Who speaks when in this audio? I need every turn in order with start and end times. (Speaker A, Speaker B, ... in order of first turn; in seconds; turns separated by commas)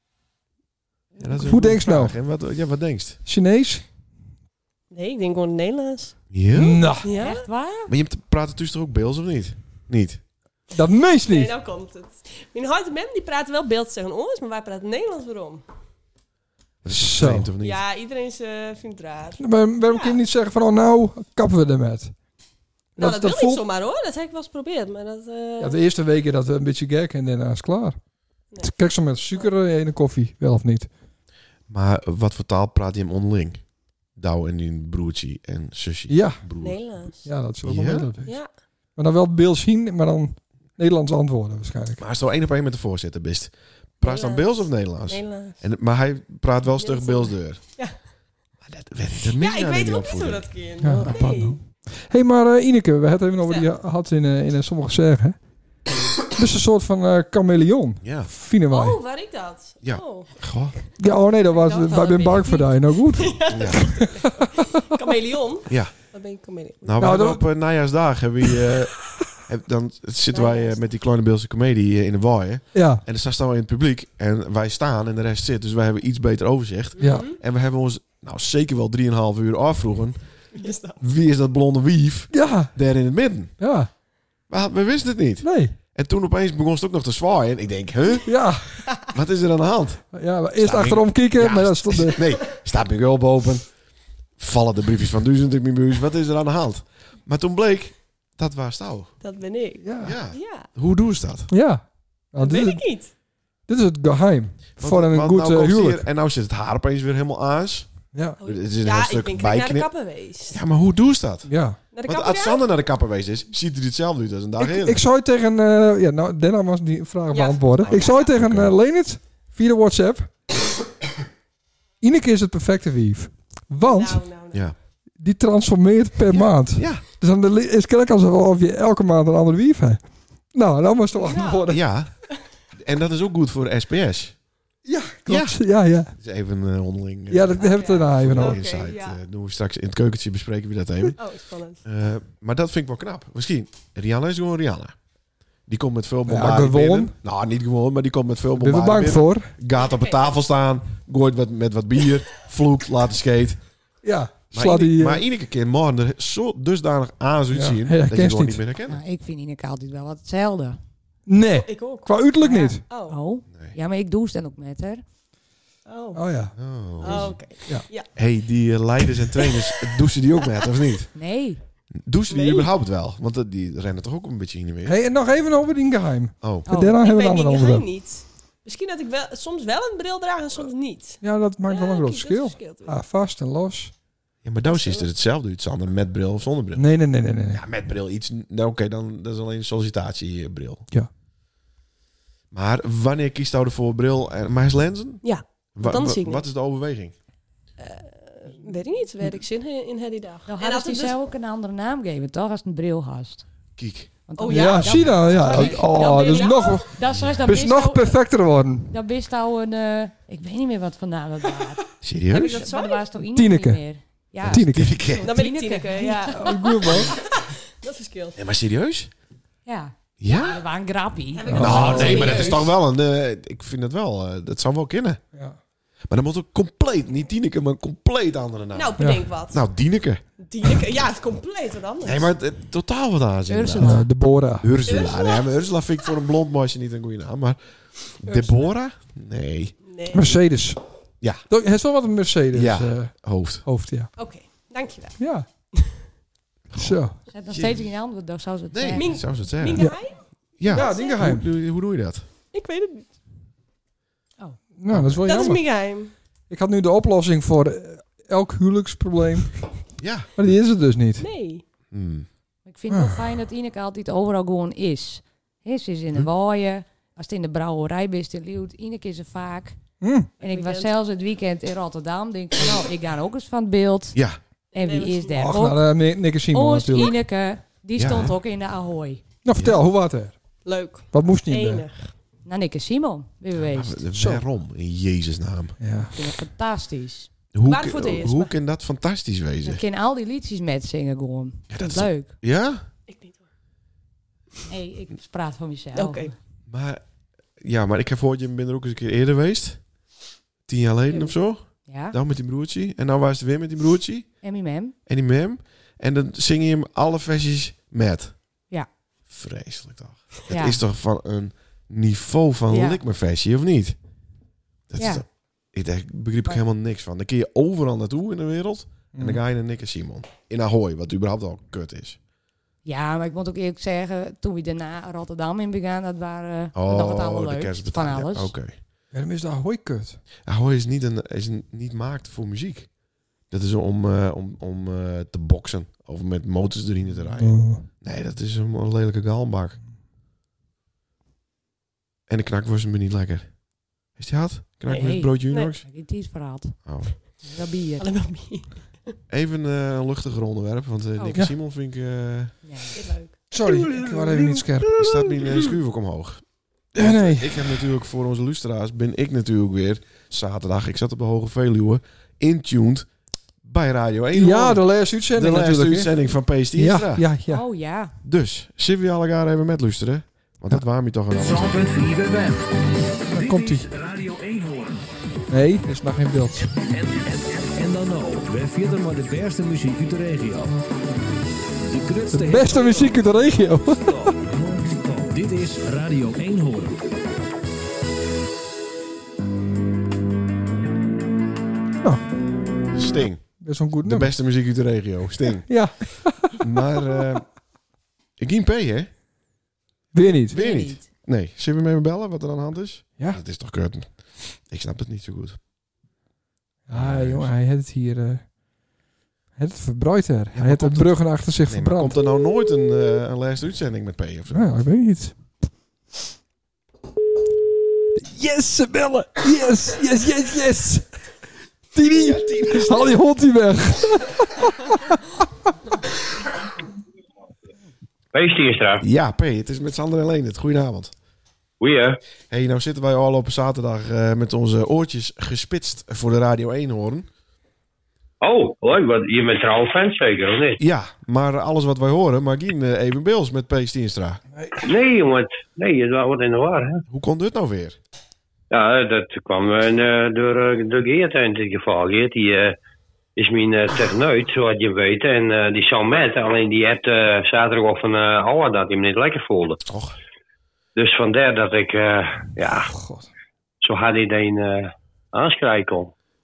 Speaker A: 1.1-3.2, Speaker B: 1.4-2.1, Speaker B: 3.2-3.8, Speaker C: 4.9-6.2, Speaker A: 6.3-6.9, Speaker B: 6.5-7.1, Speaker C: 7.0-7.5, Speaker D: 7.1-7.9, Speaker A: 7.9-10.2, Speaker B: 10.7-11.5, Speaker C: 11.2-15.6, Speaker A: 16.8-17.8, Speaker B: 16.9-17.5, Speaker C: 17.6-20.2, Speaker B: 19.4-22.1, Speaker B: 22.9-23.6, Speaker C: 23.0-25.8, Speaker B: 25.6-28.0, Speaker B: 28.6-30.9, Speaker A: 31.7-33.6, Speaker A: 34.1-36.9, Speaker B: 36.1-36.4, Speaker C: 36.6-37.3, Speaker B: 37.2-38.4, Speaker A: 37.6-38.1, Speaker C: 38.2-38.5, Speaker B: 39.0-42.0, Speaker A: 42.0-47.6, Speaker C: 44.0-45.6, Speaker C: 46.8-48.0, Speaker A: 48.6-50.5, Speaker C: 49.4-51.6, Speaker B: 50.8-55.4, Speaker C: 53.4-53.7, Speaker B: 56.3-59.0, Speaker A: 58.0-58.3, Speaker C: 58.7-60.3, Speaker A: 59.8-60.8, Speaker B: 61.0-64.5, Speaker C: 61.5-66.9, Speaker A: 63.5-63.9, Speaker A: 65.7-65.9, Speaker A: 66.8-80.2, Speaker B: 67.0-67.5, Speaker C: 70.3-70.8, Speaker B: 72.7-73.0, Speaker C: 77.0-77.4, Speaker B: 77.0-77.3, Speaker C: 80.5-81.0, Speaker A: 81.0-83.5, Speaker B: 82.3-82.8, Speaker B: 83.6-83.9, Speaker A: 84.5-88.3, Speaker B: 85.4-85.8, Speaker B: 88.2-88.9, Speaker A: 89.1-93.7, Speaker B: 90.1-92.3, Speaker A: 94.4-99.1, Speaker C: 99.2-100.7, Speaker B: 99.8-100.2, Speaker A: 100.0-101.5, Speaker B: 101.5-102.9, Speaker C: 102.4-103.1, Speaker B: 103.7-106.0, Speaker A: 104.8-107.9, Speaker B: 108.1-108.4, Speaker A: 108.4-109.9, Speaker C: 108.4-110.6, Speaker A: 110.5-111.5, Speaker B: 111.5-111.8, Speaker C: 111.9-112.6, Speaker A: 112.0-115.0, Speaker B: 114.6-120.3, Speaker C: 117.3-118.3, Speaker A: 117.8-118.7, Speaker B: 122.0-124.2, Speaker C: 123.8-124.7, Speaker B: 125.2-131.9, Speaker A: 126.7-127.0, Speaker C: 131.1-132.3, Speaker A: 131.7-134.4, Speaker B: 134.8-136.1, Speaker A: 135.2-141.2, Speaker B: 137.3-138.6, Speaker C: 137.6-139.2, Speaker C: 141.2-141.8, Speaker A: 141.8-144.9, Speaker A: 145.7-153.6, Speaker B: 146.3-147.1, Speaker B: 148.6-149.5, Speaker C: 149.7-150.3, Speaker B: 154.0-155.2, Speaker A: 154.5-159.0, Speaker B: 157.5-158.6, Speaker D: 158.9-160.8, Speaker B: 161.3-162.8, Speaker C: 161.5-162.3, Speaker D: 162.4-165.0, Speaker C: 162.9-163.2, Speaker C: 165.8-166.2, Speaker B: 166.1-166.6, Speaker A: 166.6-167.4, Speaker C: 167.0-168.1, Speaker A: 168.0-171.1, Speaker C: 169.3-170.0, Speaker D: 171.1-171.6, Speaker A: 171.9-175.0, Speaker C: 172.3-172.7, Speaker B: 174.8-177.9, Speaker A: 176.4-176.7, Speaker D: 176.7-177.0, Speaker C: 177.0-183.0, Speaker B: 181.2-183.9, Speaker A: 184.4-186.8, Speaker C: 184.7-185.1, Speaker B: 186.8-187.6, Speaker A: 187.5-190.9, Speaker A: 192.5-197.1, Speaker C: 195.2-196.4, Speaker C: 197.8-201.2, Speaker D: 200.5-203.5, Speaker A: 203.8-204.1, Speaker D: 204.3-208.4, Speaker C: 204.4-206.9, Speaker B: 204.5-208.9, Speaker D: 208.9-216.6, Speaker A: 212.0-212.6, Speaker C: 212.3-213.0, Speaker B: 213.3-213.8, Speaker A: 214.4-215.3, Speaker B: 214.4-215.0, Speaker C: 215.2-218.4, Speaker B: 216.3-217.1, Speaker A: 218.3-219.1, Speaker D: 219.7-222.6, Speaker A: 220.2-220.6, Speaker C: 221.3-222.7, Speaker B: 221.5-222.5, Speaker A: 221.6-225.2, Speaker A: 226.1-230.2, Speaker C: 228.7-229.7, Speaker B: 229.0-229.2, Speaker C: 230.4-232.3, Speaker A: 232.0-239.8, Speaker D: 233.5-234.1, Speaker B: 233.8-234.7, Speaker C: 234.8-236.1, Speaker C: 238.2-238.7, Speaker C: 239.8-240.3, Speaker B: 240.1-240.8, Speaker B: 241.5-244.1, Speaker A: 242.5-243.6, Speaker C: 244.2-246.0, Speaker B: 245.2-245.4, Speaker A: 246.7-247.0, Speaker B: 246.7-247.2, Speaker D: 247.3-249.3, Speaker A: 247.5-247.9, Speaker A: 248.7-250.0, Speaker C: 248.9-251.3, Speaker A: 250.6-252.2, Speaker B: 250.7-251.5, Speaker C: 252.5-253.1, Speaker B: 254.8-255.7, Speaker A: 254.9-255.2, Speaker C: 255.2-256.1, Speaker B: 256.5-259.7, Speaker A: 260.0-260.3, Speaker B: 260.3-261.3, Speaker C: 261.2-261.6, Speaker A: 261.9-262.2, Speaker D: 262.6-269.8, Speaker B: 262.9-263.2, Speaker B: 270.0-270.3, Speaker D: 270.4-274.2, Speaker C: 270.4-270.9, Speaker C: 274.7-275.5, Speaker D: 274.7-279.2, Speaker B: 275.4-277.1, Speaker A: 277.9-278.4, Speaker B: 279.4-280.6, Speaker A: 279.5-279.8, Speaker C: 280.6-282.1, Speaker B: 281.1-281.9, Speaker D: 282.4-284.0, Speaker A: 283.6-285.8, Speaker B: 284.1-284.4, Speaker B: 285.8-286.1, Speaker D: 286.1-287.3, Speaker A: 287.5-289.8, Speaker C: 287.6-288.5, Speaker D: 289.6-292.4, Speaker A: 291.7-292.8, Speaker C: 293.1-293.4, Speaker D: 294.7-296.3, Speaker C: 295.9-296.3, Speaker A: 296.7-297.0, Speaker A: 297.6-299.8, Speaker A: 300.7-304.3, Speaker D: 301.8-302.1, Speaker D: 304.4-304.9, Speaker A: 305.1-308.4, Speaker A: 309.3-313.9, Speaker D: 310.5-310.8, Speaker D: 312.7-313.0, Speaker A: 314.9-322.2, Speaker D: 315.0-315.2, Speaker B: 319.1-319.4, Speaker D: 322.8-328.5, Speaker A: 326.7-328.8, Speaker B: 329.1-330.2, Speaker A: 330.4-332.9, Speaker A: 333.5-339.8, Speaker B: 337.4-337.9, Speaker A: 342.3-345.9, Speaker C: 344.9-345.7, Speaker D: 344.9-348.1, Speaker A: 346.8-347.1, Speaker C: 348.0-349.1, Speaker A: 349.3-352.5, Speaker D: 352.6-353.1, Speaker C: 352.9-355.6, Speaker B: 353.5-354.9, Speaker A: 355.0-363.1, Speaker B: 356.9-357.8, Speaker A: 363.6-367.2, Speaker B: 364.3-366.1, Speaker B: 366.7-367.6, Speaker D: 367.5-368.1, Speaker A: 368.2-371.8, Speaker E: 371.3-375.0, Speaker B: 373.3-373.9, Speaker B: 375.5-376.7, Speaker E: 376.9-380.7, Speaker E: 381.9-383.2, Speaker B: 382.3-384.4, Speaker E: 384.0-387.0, Speaker A: 392.9-396.1, Speaker B: 393.6-394.3, Speaker B: 395.7-397.1, Speaker A: 396.6-397.5, Speaker A: 398.4-399.1, Speaker B: 400.1-400.6, Speaker D: 400.5-401.0, Speaker A: 400.5-405.6, Speaker B: 406.9-408.5, Speaker A: 406.9-407.5, Speaker B: 409.6-412.2, Speaker A: 410.5-414.7, Speaker B: 414.5-415.4, Speaker B: 418.1-421.1, Speaker B: 421.9-425.4, Speaker A: 422.1-423.2, Speaker F: 428.3-429.0, Speaker A: 429.0-431.1, Speaker F: 431.8-432.1, Speaker A: 432.5-437.3, Speaker F: 438.4-440.8, Speaker A: 440.8-444.4, Speaker F: 444.8-447.0, Speaker A: 447.1-448.0, Speaker F: 448.7-452.7, Speaker F: 453.4-459.8, Speaker A: 459.9-460.1, Speaker F: 460.9-462.9, Speaker B: 462.8-463.3, Speaker F: 463.8-466.1